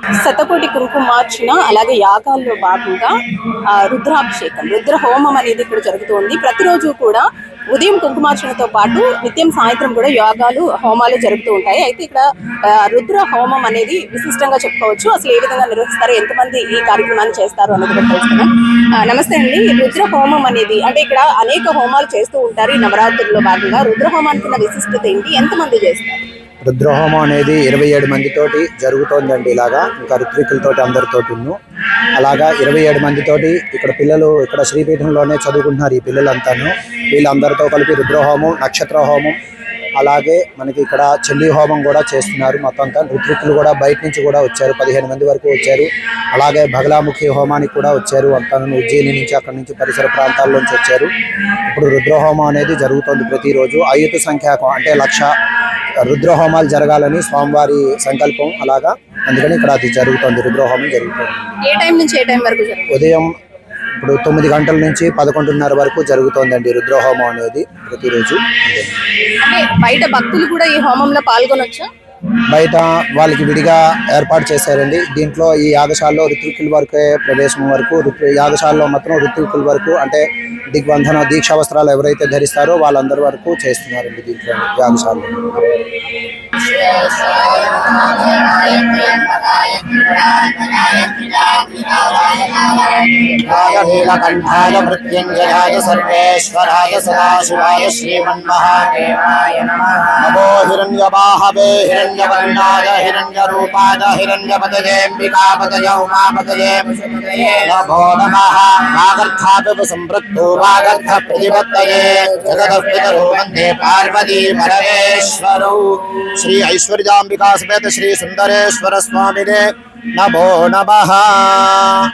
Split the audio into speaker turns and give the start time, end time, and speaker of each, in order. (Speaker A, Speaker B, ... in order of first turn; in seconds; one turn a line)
Speaker A: 0.2-3.1
Speaker A: 3.7-26.2
Speaker B: 26.6-31.6
Speaker B: 32.2-39.4
Speaker B: 40.0-51.1
Speaker B: 51.7-55.3
Speaker B: 56.0-61.4
Speaker A: 61.6-63.0
Speaker B: 62.9-63.3
Speaker B: 64.0-69.0
Speaker A: 69.4-71.9
Speaker B: 72.5-85.6
Speaker C: 86.6-119.7
Speaker C: 120.2-121.8